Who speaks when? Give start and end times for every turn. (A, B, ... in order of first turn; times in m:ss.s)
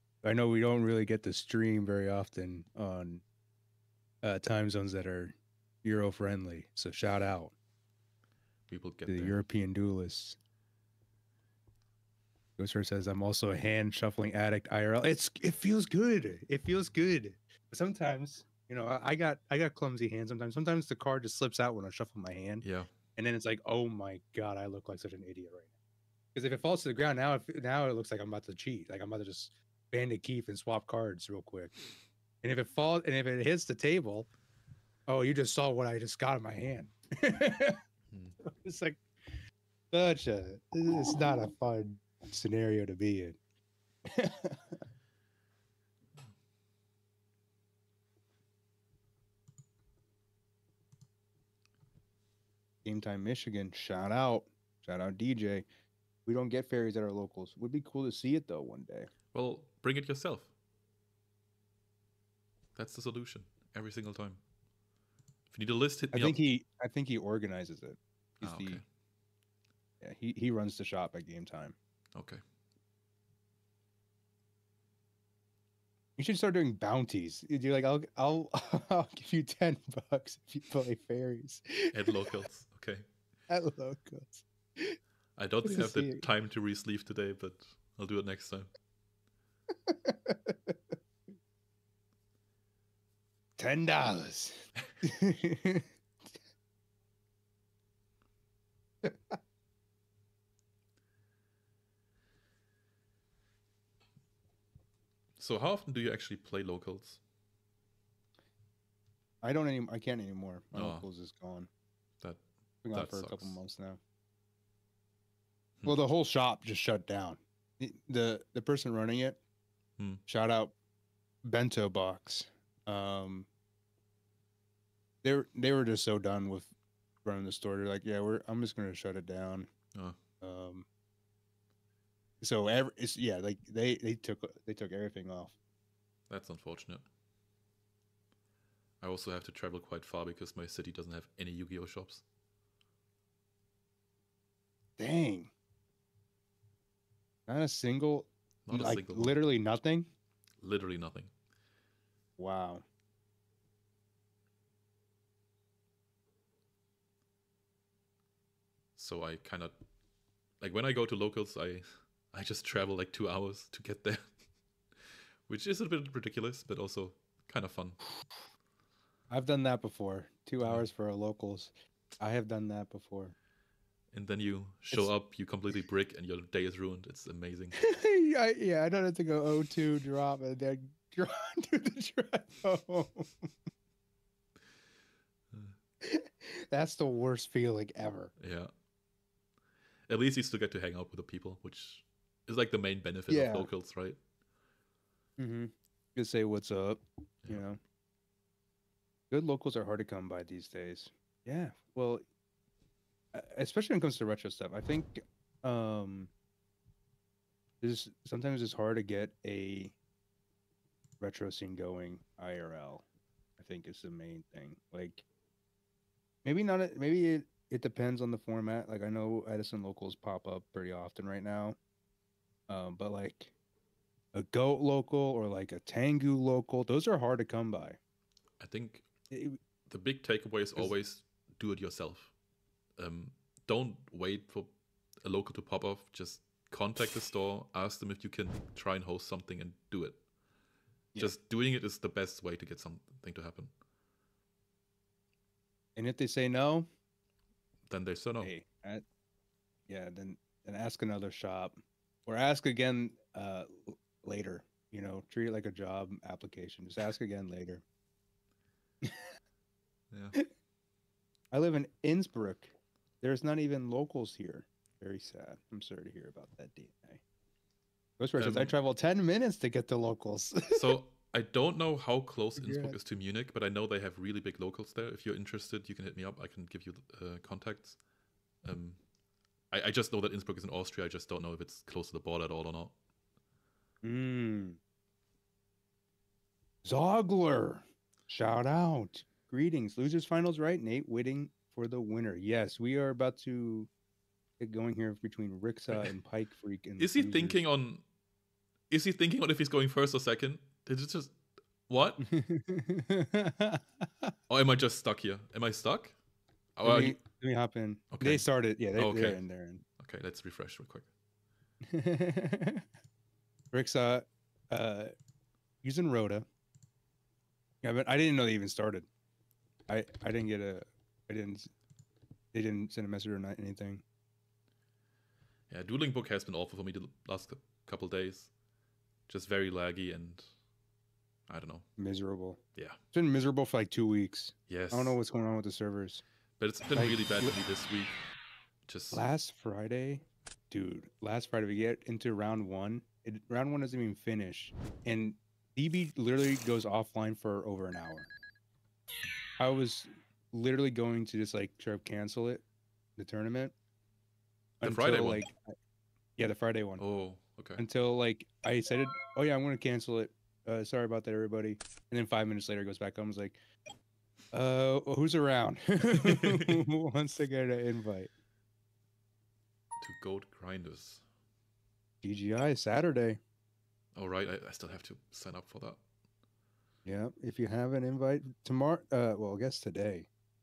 0:00.2-0:03.2 A
0:04.2-0:07.5 A
0:08.7-0:09.4 B
0:09.1-0:10.4 A
0:12.6-0:22.6 A
0:22.6-0:22.9 B
0:23.2-0:25.7 A
0:26.4-0:31.8 A
0:32.4-0:34.3 A
0:35.1-0:37.8 A
0:38.4-0:39.0 A
0:39.9-0:43.4 A
0:44.0-0:44.8 A
0:52.8-0:55.7 A
0:56.3-0:59.1 A
0:59.3-1:00.5 B
1:02.8-1:04.4 B
1:05.5-1:06.4 B
1:06.1-1:08.8 A
1:08.4-1:08.8 B
1:10.0-1:11.8 A
1:12.2-1:12.4 B
1:16.2-1:22.3 A
1:21.9-1:23.0 B
1:23.5-1:25.0 A
1:25.4-1:28.7 B
1:25.6-1:26.3 A
1:29.9-1:30.9 A
1:33.6-1:35.9 A
1:39.0-1:39.4 A
1:45.4-1:47.2 B
1:49.4-1:51.7 A
1:50.8-1:51.0 B
1:52.2-1:53.6 B
1:52.8-1:54.0 A
1:55.8-1:59.4 A
2:00.3-2:00.8 A
2:01.4-2:03.5 A
2:05.2-2:06.7 A
2:07.2-2:09.7 A
2:10.4-2:10.9 A
2:12.4-2:15.6 A
2:16.3-2:17.0 B
2:19.0-2:22.2 B
2:25.0-2:25.5 A
2:27.5-2:30.1 A
2:28.7-2:29.4 B
2:30.6-2:31.3 B
2:32.4-2:32.8 A
2:39.0-2:39.8 B
2:40.6-2:44.2 B
2:45.5-2:48.0 B
2:49.3-2:53.4 A
2:54.1-2:57.8 B
2:57.8-3:03.5 A
3:06.0-3:08.3 A
3:08.4-3:08.7 B
3:10.1-3:14.2 B
3:13.3-3:13.7 A
3:15.4-3:17.8 A
3:19.3-3:22.2 A
3:23.3-3:26.3 A
3:27.8-3:30.0 A
3:31.2-3:33.0 A
3:33.6-3:35.2 A
3:36.4-3:41.8 A
3:42.7-3:43.5 A
3:44.3-3:48.0 A
3:48.6-3:49.1 B
3:49.3-3:49.6 A
3:49.9-3:52.3 B
3:53.0-3:54.7 B
3:55.2-4:00.2 B
4:01.2-4:03.7 B
4:06.0-4:06.9 A
4:07.9-4:08.5 B
4:08.4-4:09.0 A
4:09.9-4:17.8 A
4:19.0-4:19.3 A
4:20.1-4:20.4 B
4:21.5-4:27.2 A
4:28.2-4:30.9 A
4:28.4-4:28.8 B
4:30.7-4:38.0 B
4:32.6-4:33.0 A
4:38.6-4:39.0 B
4:39.7-4:42.9 B
4:44.0-4:44.8 A
4:46.8-4:53.9 A
4:54.6-4:57.6 A
4:57.0-4:58.0 B
4:58.9-5:02.3 B
5:02.2-5:04.3 A
5:04.5-5:06.2 B
5:06.8-5:07.2 B
5:06.8-5:09.8 A
5:08.1-5:09.4 B
5:10.0-5:11.1 B
5:11.8-5:12.9 A
5:13.7-5:15.1 A
5:15.8-5:16.5 A
5:17.8-5:19.1 A
5:19.9-5:21.7 A
5:22.5-5:24.0 A
5:25.7-5:28.5 B
5:29.3-5:30.5 B
5:31.5-5:31.9 B
5:32.0-5:32.6 A
5:33.1-5:36.2 A
5:34.7-5:35.2 B
5:36.6-5:38.2 B
5:36.9-5:37.6 A
5:38.9-5:39.2 B
5:39.1-5:48.3 A
5:49.6-5:52.6 A
5:53.2-5:53.7 A
5:54.8-5:55.7 A
5:54.8-5:55.4 B
5:56.4-5:57.0 A
5:57.0-5:57.8 B
5:57.8-6:03.6 A
6:04.5-6:08.3 A
6:06.1-6:06.9 B
6:10.0-6:11.2 B
6:12.2-6:13.4 A
6:14.2-6:16.0 B
6:17.0-6:20.3 A